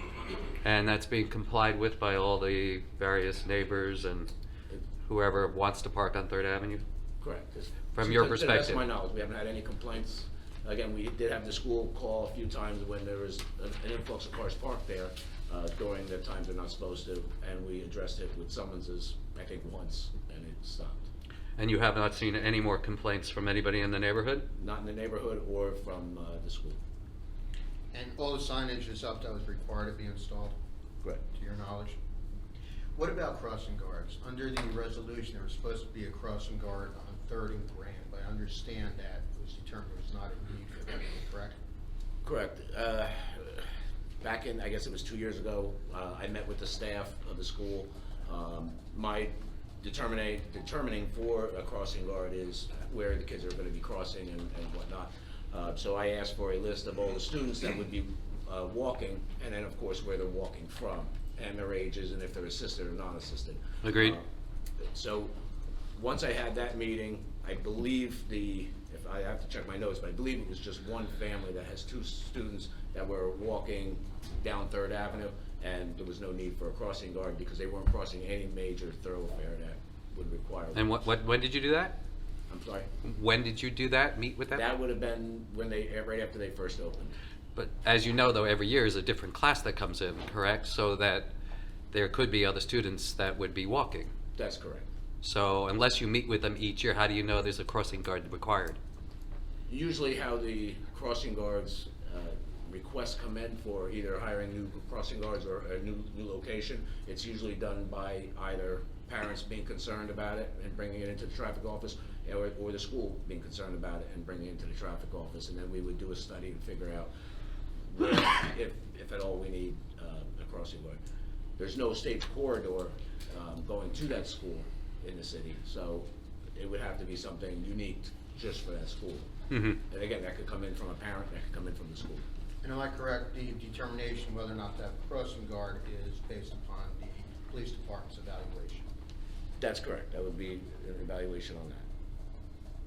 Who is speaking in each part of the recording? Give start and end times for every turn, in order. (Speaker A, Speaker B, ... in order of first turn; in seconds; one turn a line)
Speaker A: 0.6-4.3
Speaker A: 5.0-6.8
Speaker B: 7.2-21.1
Speaker A: 7.9-8.8
Speaker A: 21.6-24.5
Speaker B: 24.5-26.8
Speaker C: 27.9-30.6
Speaker C: 31.3-31.9
Speaker C: 32.9-41.5
Speaker B: 42.2-43.7
Speaker B: 44.2-64.2
Speaker A: 63.8-64.2
Speaker B: 64.8-65.3
Speaker B: 65.9-81.1
Speaker A: 80.7-82.0
Speaker B: 82.5-82.9
Speaker A: 83.0-84.7
Speaker B: 84.5-87.2
Speaker A: 87.5-91.3
Speaker A: 91.9-94.1
Speaker B: 94.3-94.9
Speaker A: 95.2-98.8
Speaker B: 99.7-117.1
Speaker B: 117.9-121.0
Speaker B: 121.6-129.3
Speaker A: 129.5-129.8
Speaker B: 129.9-132.2
Speaker C: 132.6-138.8
Speaker B: 139.6-141.8